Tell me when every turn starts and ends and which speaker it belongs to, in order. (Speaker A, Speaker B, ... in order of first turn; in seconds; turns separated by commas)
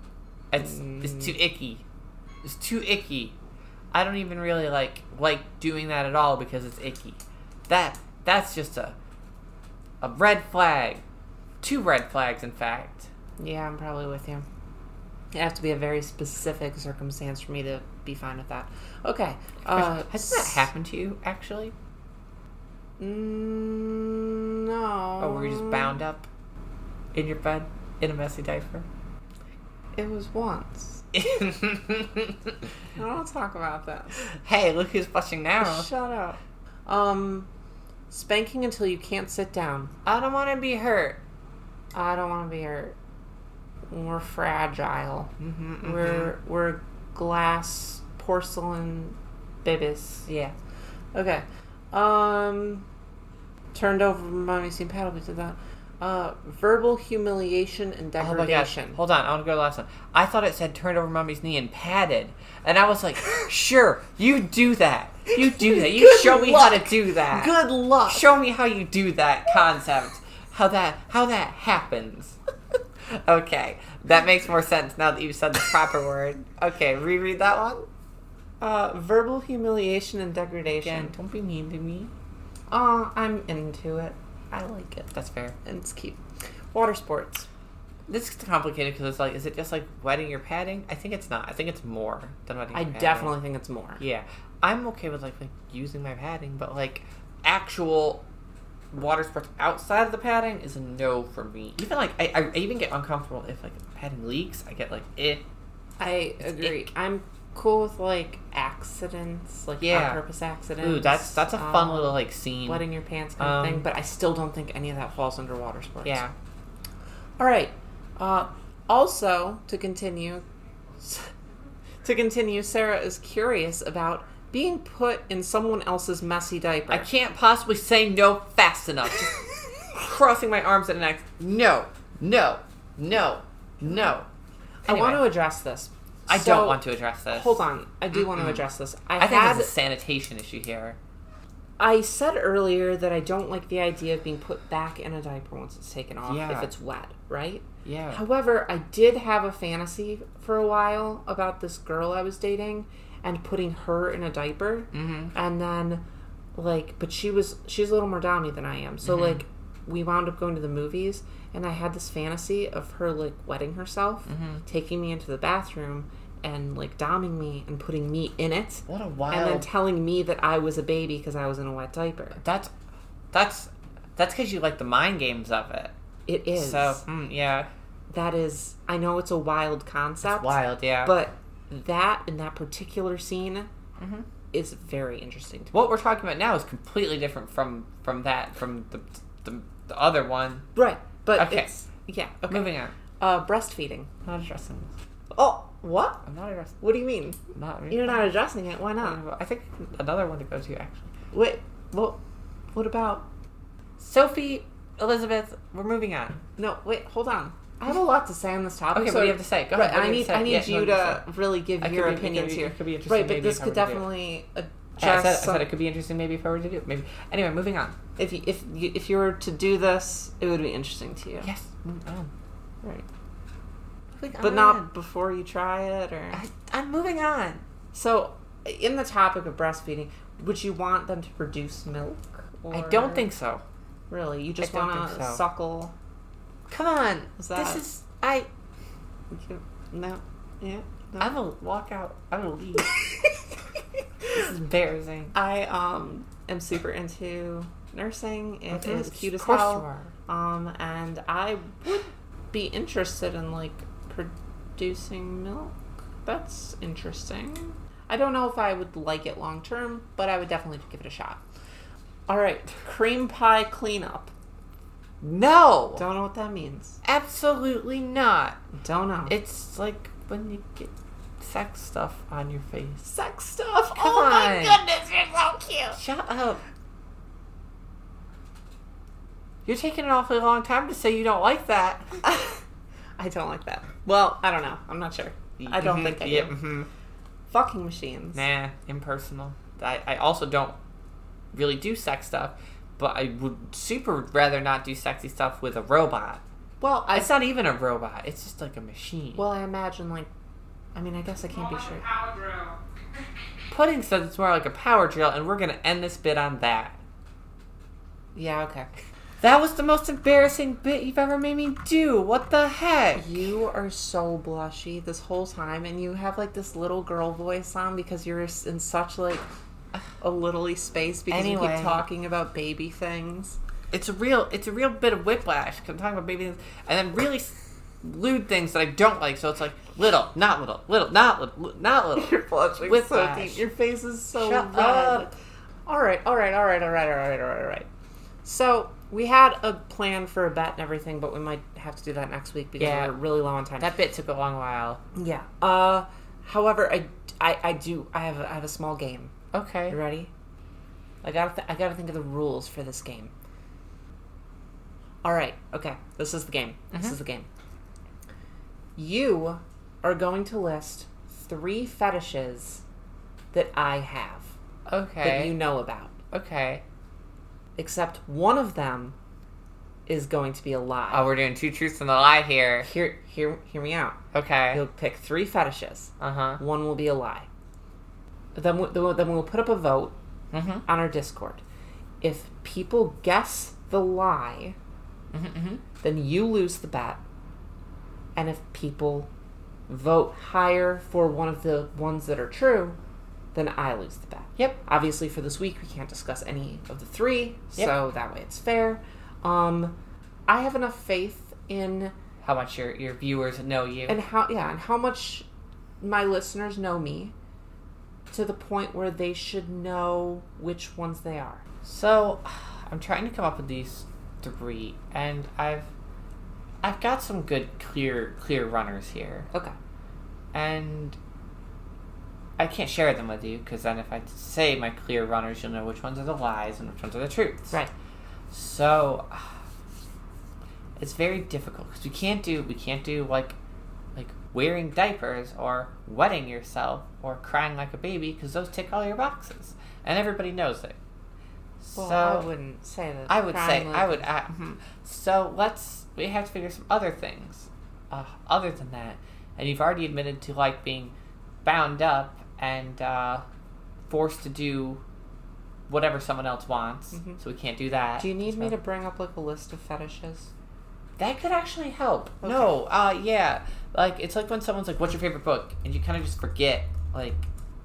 Speaker A: 0.5-1.8, Speaker B: 0.6-1.3, Speaker A: 2.4-3.4, Speaker A: 3.9-9.0, Speaker A: 10.0-11.0, Speaker A: 11.6-13.1, Speaker B: 13.4-14.5, Speaker B: 15.3-20.7, Speaker A: 19.6-21.7, Speaker B: 23.0-26.0, Speaker A: 25.2-26.3, Speaker A: 27.1-28.9, Speaker B: 29.9-31.1, Speaker A: 31.1-32.7, Speaker B: 33.0-34.2, Speaker A: 34.4-35.9, Speaker B: 35.6-37.5, Speaker B: 38.1-39.9, Speaker A: 40.0-41.2, Speaker B: 41.9-43.0, Speaker B: 43.9-50.3, Speaker A: 45.4-46.3, Speaker A: 50.3-50.5, Speaker B: 51.1-52.9, Speaker B: 53.7-59.0, Speaker A: 58.2-67.5, Speaker B: 65.3-68.3, Speaker A: 68.1-72.4, Speaker A: 73.1-77.9, Speaker B: 78.6-81.2, Speaker A: 80.8-82.1, Speaker B: 82.7-85.1, Speaker A: 85.1-85.6, Speaker B: 85.7-86.2, Speaker B: 86.7-87.5, Speaker A: 88.1-93.3, Speaker B: 92.7-94.0, Speaker A: 94.0-98.2, Speaker A: 98.9-105.4, Speaker B: 106.0-116.2, Speaker A: 106.4-106.8, Speaker A: 109.8-110.2, Speaker A: 110.8-112.8, Speaker A: 113.4-113.9, Speaker A: 116.0-116.3, Speaker B: 117.4-120.4, Speaker B: 121.0-121.3, Speaker B: 122.0-127.1, Speaker A: 126.9-134.3, Speaker B: 134.8-139.7, Speaker A: 134.9-135.2, Speaker A: 136.3-138.6, Speaker A: 139.2-141.0, Speaker B: 141.8-156.1, Speaker A: 146.2-146.7, Speaker A: 147.8-148.2, Speaker A: 154.9-155.3, Speaker B: 156.6-172.4, Speaker A: 159.0-159.4, Speaker A: 164.3-164.7, Speaker A: 168.9-169.7, Speaker A: 172.4-172.7, Speaker A: 173.3-175.9, Speaker B: 176.3-177.0, Speaker A: 176.6-177.7, Speaker B: 178.1-183.7, Speaker A: 180.2-181.1, Speaker A: 184.0-184.3, Speaker B: 184.5-185.9, Speaker A: 185.7-190.7, Speaker B: 190.8-194.1, Speaker A: 191.4-191.7, Speaker A: 192.5-192.9, Speaker A: 194.3-194.9, Speaker B: 195.3-196.3, Speaker A: 196.3-196.8, Speaker B: 196.8-197.4, Speaker A: 197.5-198.3, Speaker B: 197.9-199.2, Speaker A: 199.0-201.1, Speaker B: 201.3-202.2, Speaker B: 202.8-203.3, Speaker A: 204.0-206.4, Speaker B: 206.6-215.7, Speaker A: 208.9-211.3, Speaker A: 211.8-214.1, Speaker A: 215.0-218.0, Speaker B: 218.2-221.5, Speaker A: 221.4-222.3, Speaker A: 224.2-224.9, Speaker B: 224.4-226.4, Speaker A: 226.3-227.6, Speaker B: 227.9-233.3, Speaker A: 232.7-233.6, Speaker B: 234.1-235.9, Speaker A: 234.6-235.4, Speaker A: 236.7-238.5, Speaker B: 237.4-237.8, Speaker B: 239.3-241.4, Speaker A: 241.2-242.9, Speaker B: 242.9-243.2, Speaker A: 244.3-245.3, Speaker B: 245.3-255.8, Speaker A: 248.7-250.1, Speaker B: 256.3-261.4, Speaker B: 262.3-264.3, Speaker A: 265.2-266.0, Speaker B: 266.0-267.0, Speaker A: 267.0-268.6, Speaker B: 268.7-269.4, Speaker A: 269.3-273.1, Speaker B: 273.1-276.0, Speaker A: 273.9-274.8, Speaker A: 275.9-276.6, Speaker A: 279.6-282.2, Speaker B: 282.2-282.6, Speaker B: 283.2-286.6, Speaker A: 285.6-286.9, Speaker B: 287.5-288.4, Speaker A: 288.3-290.8, Speaker A: 291.5-296.4, Speaker B: 296.8-297.3, Speaker A: 297.1-299.4, Speaker B: 299.4-300.3, Speaker B: 300.9-302.1, Speaker A: 301.5-302.8, Speaker A: 303.7-307.0, Speaker B: 308.4-308.9, Speaker A: 309.4-313.4, Speaker B: 313.2-319.4, Speaker B: 320.2-323.6, Speaker A: 321.3-322.0, Speaker A: 323.9-333.6, Speaker B: 332.1-335.3, Speaker A: 334.4-335.3, Speaker B: 335.9-337.9, Speaker B: 338.4-343.9, Speaker A: 342.8-343.1, Speaker A: 343.8-345.0, Speaker B: 345.1-349.3, Speaker A: 349.5-350.0, Speaker B: 349.9-350.3, Speaker B: 351.2-353.3, Speaker B: 355.2-357.5, Speaker B: 359.0-362.8, Speaker B: 363.5-364.5, Speaker A: 364.9-365.6, Speaker B: 365.2-366.1, Speaker A: 366.3-366.8, Speaker B: 367.8-369.1, Speaker B: 370.1-371.3, Speaker A: 371.1-372.9, Speaker B: 372.8-374.2, Speaker A: 374.3-374.8, Speaker B: 374.7-377.5, Speaker A: 376.2-376.6, Speaker B: 378.6-380.2, Speaker A: 380.5-380.8, Speaker B: 380.9-381.6, Speaker B: 382.2-384.8, Speaker A: 385.3-385.8, Speaker B: 386.0-387.2, Speaker B: 388.4-389.3, Speaker B: 389.9-393.0, Speaker B: 393.5-400.0, Speaker B: 400.5-402.1, Speaker A: 402.4-404.2, Speaker B: 404.1-405.5, Speaker B: 406.0-407.3, Speaker B: 408.3-411.6, Speaker A: 411.8-415.9, Speaker A: 416.8-419.5, Speaker A: 420.5-421.2, Speaker A: 422.6-427.8, Speaker A: 428.5-429.5, Speaker A: 431.0-433.6, Speaker A: 434.2-441.0, Speaker A: 441.8-442.5, Speaker B: 441.9-444.3, Speaker A: 443.3-453.4, Speaker A: 454.1-455.0, Speaker A: 455.9-458.7, Speaker B: 457.1-457.4, Speaker B: 458.2-460.5, Speaker A: 461.2-467.5, Speaker B: 462.4-462.8